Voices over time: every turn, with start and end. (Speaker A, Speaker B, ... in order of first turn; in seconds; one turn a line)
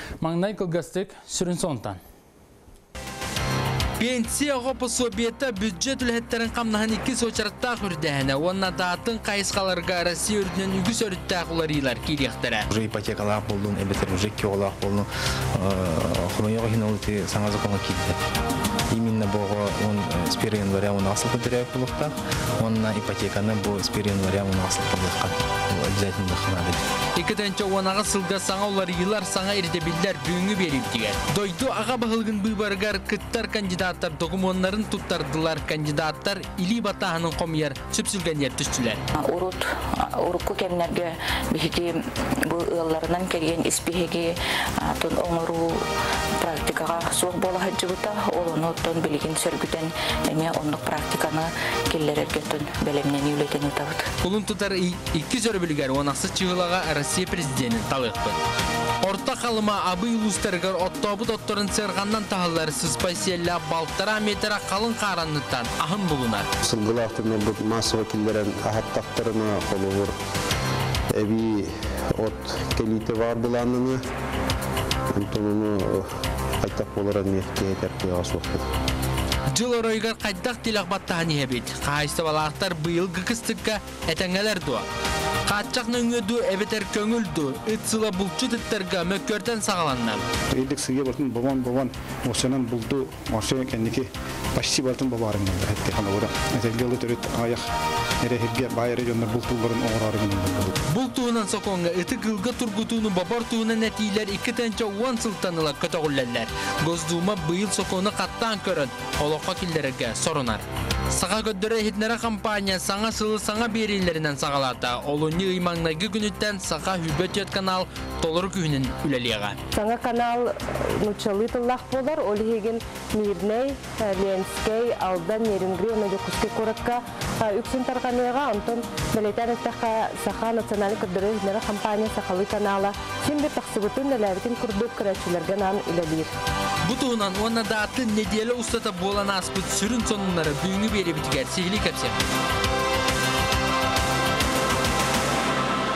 Speaker A: 0.2-2.0
Speaker A: 4.0-12.7
Speaker B: 12.7-18.2
Speaker B: 18.9-26.8
Speaker A: 27.2-39.0
Speaker C: 39.1-45.9
Speaker C: 46.4-54.1
Speaker A: 54.2-58.4
Speaker A: 59.0-66.5
Speaker D: 66.6-70.2
Speaker D: 71.1-74.0
Speaker D: 75.1-76.1
Speaker D: 76.6-78.7
Speaker A: 79.5-84.9
Speaker A: 85.5-90.2
Speaker E: 90.5-97.7
Speaker E: 98.2-100.8
Speaker A: 100.9-119.6
Speaker F: 119.7-136.3
Speaker A: 136.9-142.2